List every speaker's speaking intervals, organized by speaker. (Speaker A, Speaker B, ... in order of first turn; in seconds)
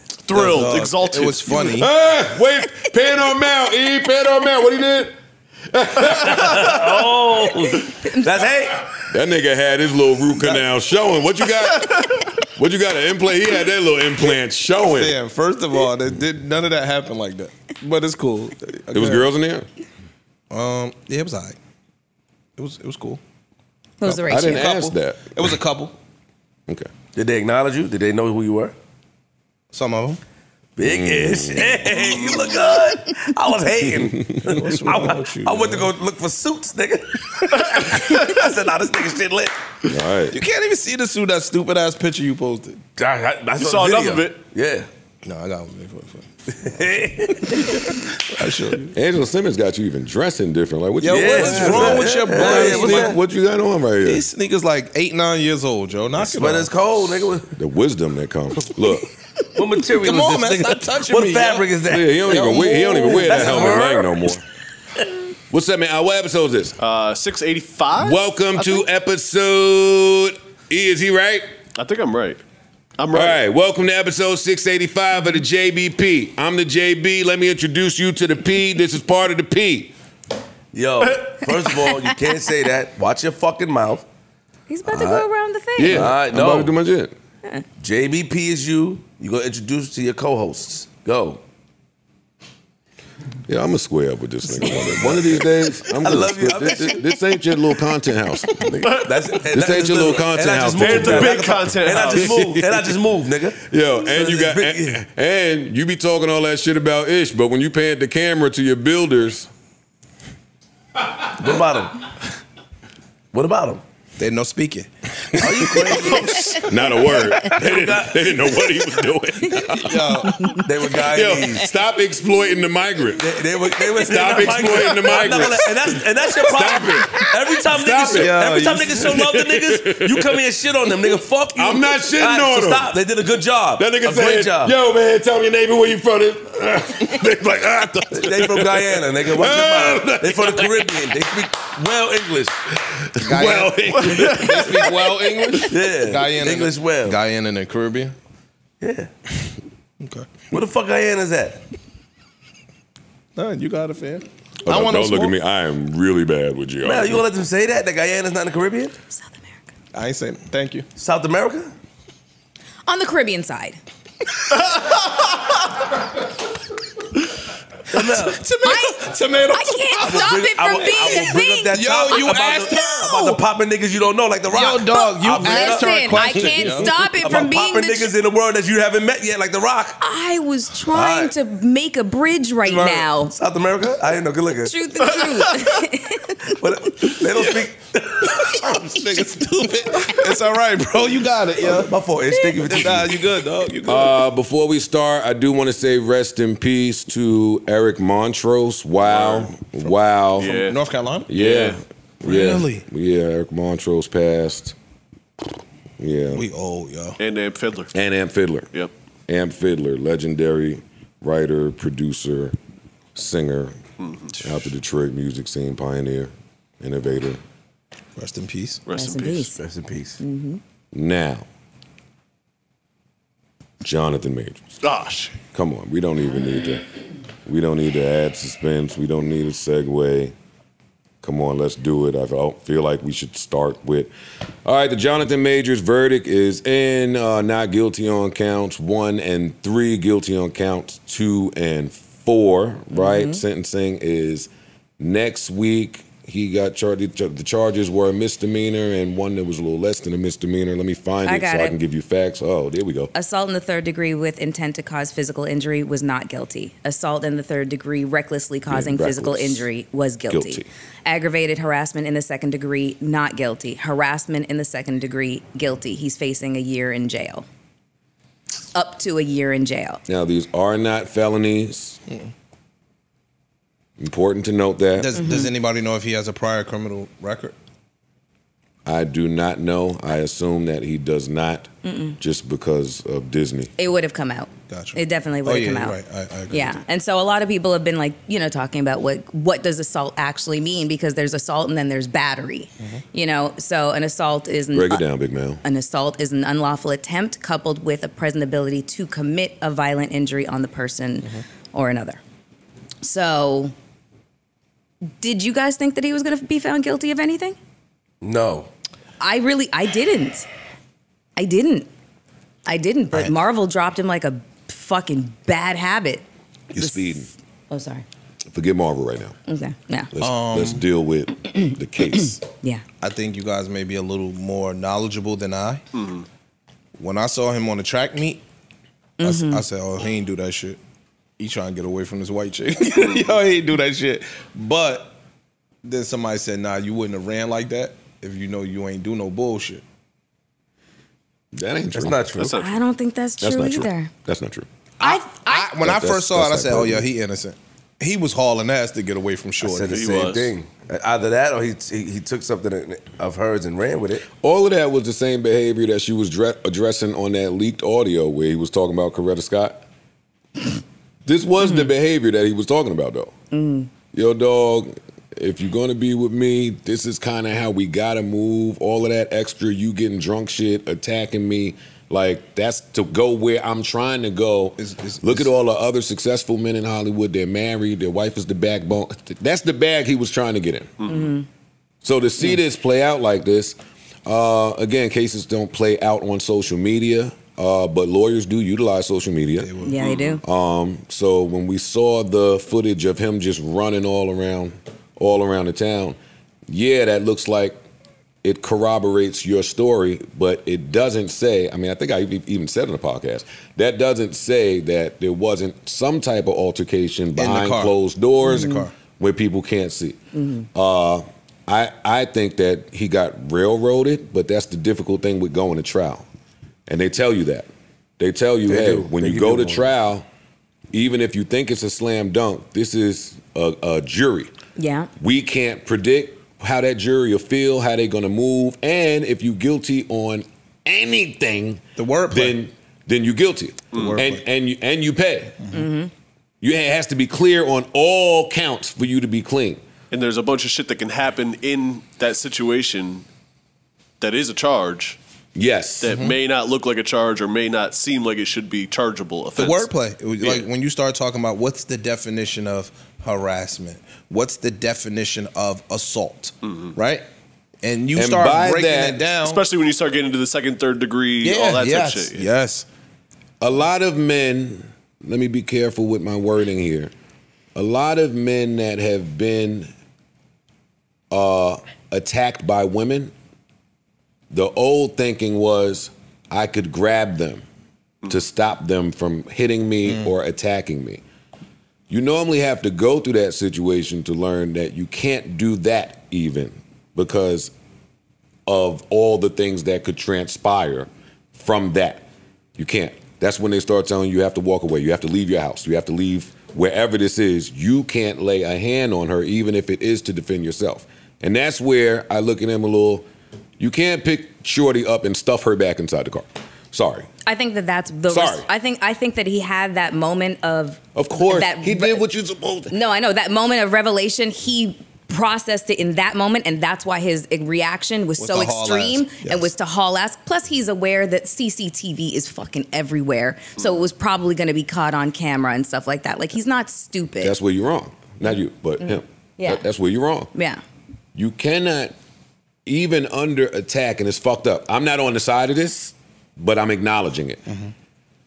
Speaker A: 0.2-1.9, 38.0-38.3, 43.6-44.4, 66.8-68.8, 71.7-72.4, 73.0-73.4, 98.8-99.2, 100.7-102.4, 144.0-144.6, 200.4-200.8, 201.3-201.8, 207.2-207.9, 214.0-214.3, 218.8-219.5, 224.8-225.3, 325.9-326.2, 332.9-333.2, 342.3-342.8, 349.9-350.5, 381.0-381.3, 440.1-443.2, 444.2-445.2, 446.0-450.7, 459.4-462.5
Speaker B: 0.3-1.9, 14.8-19.2, 20.5-21.6, 22.6-23.2, 24.3-25.9, 29.7-30.2, 34.4-35.9, 40.3-42.8, 45.2-46.3, 47.6-48.9, 51.0-53.1, 54.0-56.7, 59.9-61.8, 62.3-64.0, 114.2-114.9, 115.5-116.5, 119.7-120.6, 128.1-129.1, 143.2-148.1, 150.0-150.3, 153.3-155.3, 159.9-160.9, 164.7-165.3, 167.9-170.1, 170.9-173.4, 174.5-176.9, 187.3-187.7, 188.2-191.9, 192.6-194.2, 199.2-201.3, 202.2-202.8, 206.3-207.2, 218.2-218.8, 275.0-277.5, 284.7-286.8, 320.2-320.8, 323.0-325.8, 327.0-328.4, 329.2-330.8, 331.4-335.2, 335.8-339.8, 345.0-350.1, 374.8-375.5, 389.6-389.9, 407.3-408.9, 431.9-432.6, 433.9-434.4, 449.6-457.2, 457.8-459.6, 461.4-462.9, 518.4-519.7
Speaker C: 1.7-5.1, 5.7-6.8, 9.1-15.2, 18.9-19.7, 24.0-25.6, 30.8-32.1, 34.0-34.6, 39.9-40.4, 48.8-54.2, 57.5-59.1, 61.8-64.4, 65.5-66.8, 67.9-71.5, 73.1-79.9, 85.8-87.1, 93.5-102.9, 103.6-109.5, 116.6-132.9, 133.8-141.3, 142.8-145.7, 154.6-157.2, 193.8-200.7, 201.3-204.7, 206.0-206.5, 207.9-208.7, 209.3-212.6, 213.1-213.8, 214.4-217.4, 220.9-221.5, 223.8-224.7, 225.5-226.8, 227.4-230.3, 231.2-234.1, 234.6-253.1, 258.7-259.7, 260.3-260.7, 270.1-272.0, 274.0-275.2, 278.8-281.7, 282.2-283.7, 294.7-295.6, 316.7-317.3, 318.5-319.4, 320.1-322.4, 341.5-342.3, 343.4-344.7, 345.8-347.1, 354.4-359.8, 361.2-363.3, 364.1-380.9, 382.0-389.7, 390.4-397.8, 398.4-410.2, 410.7-416.2, 416.9-420.2, 420.9-424.5, 425.2-435.6, 436.6-439.8, 445.5-446.2, 458.1-459.2, 463.6-467.1, 467.7-469.9, 471.3-473.3, 474.5-477.6, 478.3-481.2, 482.1-487.7, 488.6-492.2, 492.8-503.2, 503.8-507.3, 508.3-508.6, 511.1-512.9, 527.4-530.5, 531.3-532.1, 532.9-537.6
Speaker D: 6.3-9.0, 27.1-28.7, 30.8-39.5, 43.0-44.9, 46.5-47.9, 51.1-53.2, 56.2-57.5, 59.5-64.1, 80.7-84.0, 84.9-85.3, 85.9-86.7, 87.8-91.4, 94.6-97.0, 98.9-103.6, 104.1-105.0, 111.3-112.0, 113.3-113.8, 115.4-116.6, 117.4-118.8, 120.5-121.7, 123.2-134.7, 138.1-142.6, 145.7-147.2, 148.8-149.1, 150.5-151.6, 156.8-158.9, 160.9-161.7, 167.9-168.4, 169.9-180.0, 180.9-181.3, 182.7-184.8, 186.4-188.6, 191.6-193.3, 219.5-220.2, 308.2-308.7, 341.9-342.6, 349.6-354.2, 418.7-419.9
Speaker E: 24.0-24.7, 84.7-86.1, 159.1-159.5, 162.9-163.8, 168.6-173.3, 174.9-178.1, 180.0-183.3, 184.6-186.6, 218.9-219.6, 220.2-220.6, 242.9-243.4, 251.2-251.7, 253.1-267.4, 268.7-270.0, 275.2-275.5, 281.8-282.2, 283.8-286.0, 286.5-295.0, 295.6-302.2, 303.0-303.7, 305.2-307.6, 309.2-310.5, 311.4-311.9, 312.6-316.2, 316.8-318.0, 319.5-320.1, 329.2-329.6, 342.5-344.1, 345.0-345.7, 361.6-361.9, 363.5-363.9, 381.1-381.4, 389.8-390.4, 408.4-408.9, 410.3-410.7, 424.8-425.1, 435.7-436.1, 507.4-512.2, 512.9-527.5, 529.6-529.8, 530.5-530.8